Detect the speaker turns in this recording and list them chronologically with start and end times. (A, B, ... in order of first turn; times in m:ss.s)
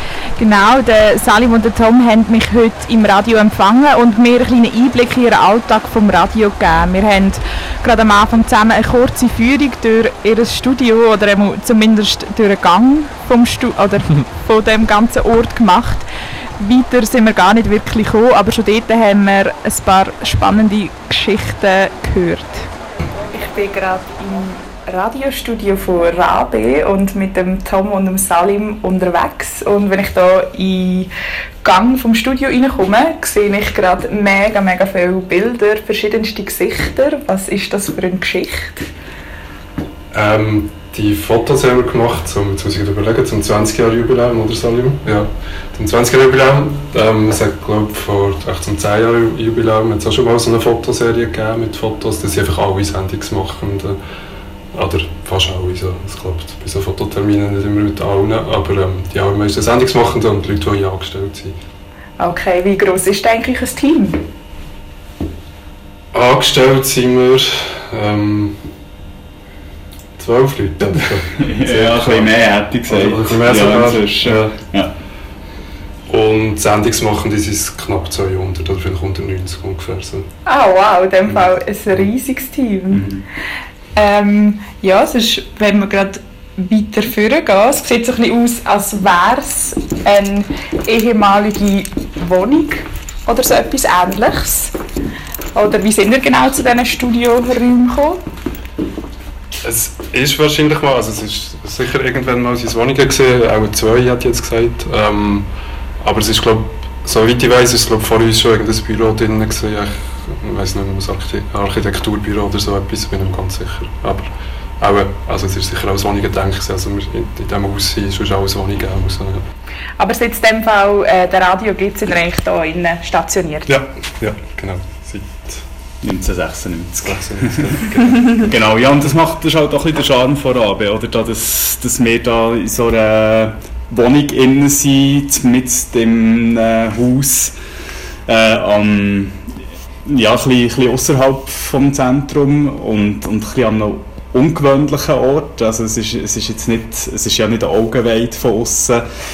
0:00.4-0:16.0 A
0:16.6-0:22.7 A
0:23.3-0:31.1 A
0:31.6-0:38.9 A
0:40.1-0:54.0 B
0:54.7-1:01.6 B
1:02.2-1:04.2 A
1:06.1-1:08.6 B
1:10.2-1:12.3 B
1:11.3-1:14.9 C
1:12.9-1:14.6 B
1:16.1-1:20.2 B
1:20.4-1:23.1 A
1:22.9-1:23.2 C
1:23.9-1:34.7 A
1:35.5-1:38.2 A
1:39.6-1:45.5 B
1:46.0-1:59.4 B
2:00.0-2:03.7 A
2:03.7-2:05.6 B
2:06.0-2:07.8 C
2:07.0-2:08.6 B
2:08.4-2:17.6 C
2:18.3-2:19.5 C
2:20.0-2:29.0 C